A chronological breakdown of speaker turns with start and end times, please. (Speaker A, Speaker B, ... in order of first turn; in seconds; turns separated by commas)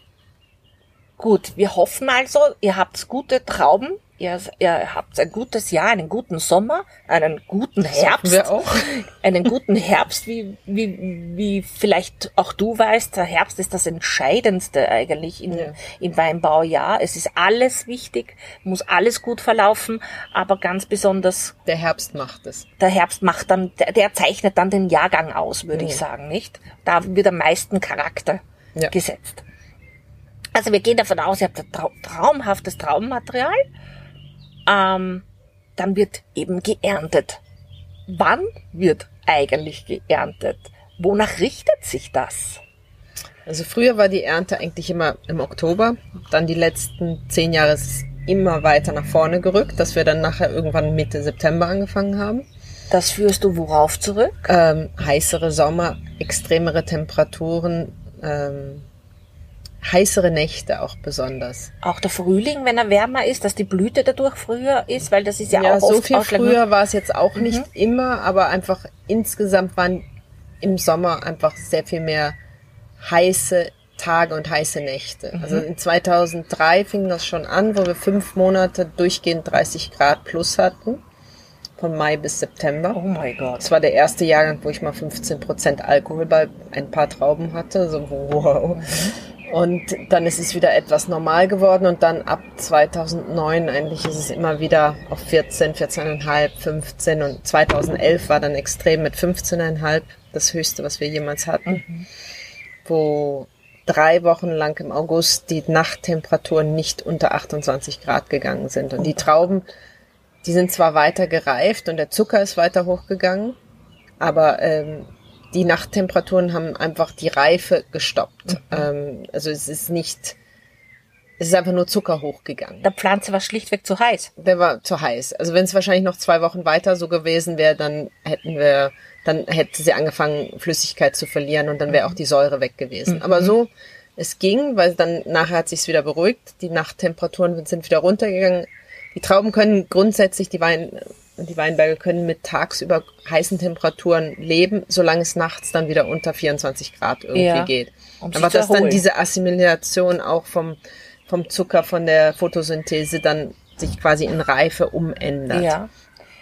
Speaker A: 1.2-21.6, Speaker B: 7.9-9.0, Speaker B: 15.5-15.8, Speaker B: 21.7-22.7, Speaker A: 22.8-29.4, Speaker B: 25.7-26.0, Speaker A: 30.6-33.6, Speaker A: 34.7-35.3, Speaker A: 35.8-37.4, Speaker A: 38.1-42.6, Speaker B: 43.5-52.5, Speaker A: 52.9-54.5, Speaker B: 54.5-58.9, Speaker B: 59.8-61.7, Speaker A: 61.8-66.6, Speaker B: 65.5-70.1, Speaker A: 67.4-67.7, Speaker B: 70.6-72.4, Speaker B: 73.0-81.0, Speaker A: 75.3-75.7, Speaker B: 81.8-83.0, Speaker A: 82.9-83.7, Speaker B: 83.6-88.9, Speaker A: 88.8-89.2, Speaker B: 89.5-101.8, Speaker A: 101.7-102.1, Speaker B: 102.8-109.7, Speaker B: 110.4-113.6, Speaker B: 114.2-120.4, Speaker B: 121.4-122.9, Speaker A: 122.8-124.3, Speaker B: 124.4-155.8, Speaker A: 133.1-133.5, Speaker A: 147.3-149.0, Speaker A: 155.5-155.9